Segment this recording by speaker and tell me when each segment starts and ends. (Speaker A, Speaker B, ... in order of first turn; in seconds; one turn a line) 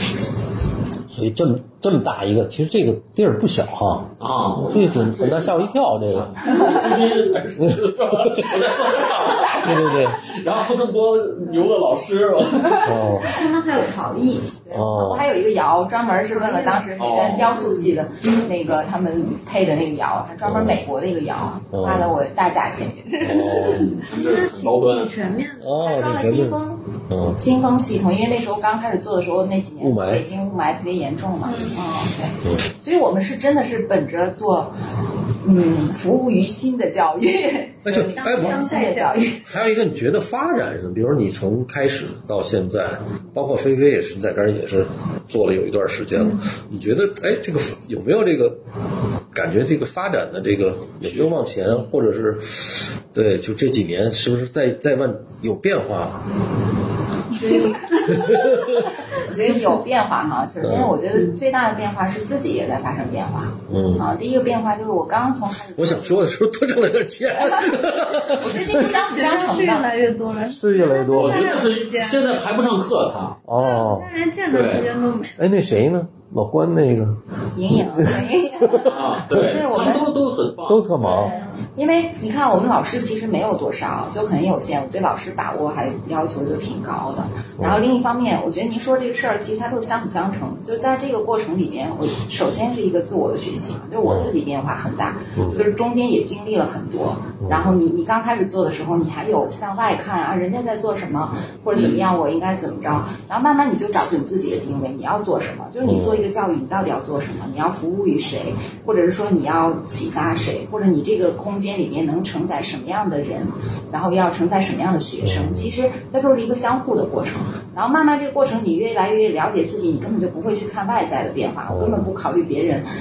Speaker A: 1.1-6.7
Speaker B: 4.2-13.1
Speaker A: 7.6-8.6
Speaker A: 9.5-10.2
Speaker C: 12.8-14.6
Speaker A: 12.8-13.4
Speaker D: 14.6-23.9
Speaker A: 14.7-15.3
Speaker C: 16.2-17.4
Speaker B: 16.9-17.6
Speaker A: 20.4-20.8
Speaker A: 21.7-22.1
Speaker A: 23.2-24.0
Speaker B: 23.6-25.2
Speaker C: 24.1-25.8
Speaker A: 25.6-27.4
Speaker D: 25.7-34.7
Speaker A: 29.8-30.2
Speaker C: 31.4-31.8
Speaker D: 35.4-39.5
Speaker A: 37.8-38.7
Speaker C: 38.0-39.5
Speaker A: 39.4-48.6
Speaker A: 49.3-56.2
Speaker B: 51.0-51.9
Speaker D: 57.4-66.3
Speaker C: 57.4-57.7
Speaker A: 58.1-58.9
Speaker A: 60.6-60.9
Speaker A: 63.7-64.0
Speaker A: 65.8-68.9
Speaker D: 67.4-69.9
Speaker C: 68.7-72.3
Speaker A: 70.5-71.6
Speaker B: 71.1-73.4
Speaker A: 73.5-74.1
Speaker C: 73.5-75.4
Speaker B: 74.5-74.9
Speaker A: 75.3-78.9
Speaker D: 77.5-80.1
Speaker B: 78.8-80.9
Speaker A: 80.7-81.3
Speaker C: 81.0-81.6
Speaker D: 81.0-122.9
Speaker A: 94.0-94.3
Speaker A: 95.3-95.7
Speaker A: 97.4-97.7
Speaker B: 101.7-102.1
Speaker A: 105.8-106.2
Speaker A: 115.2-115.7
Speaker A: 121.7-122.1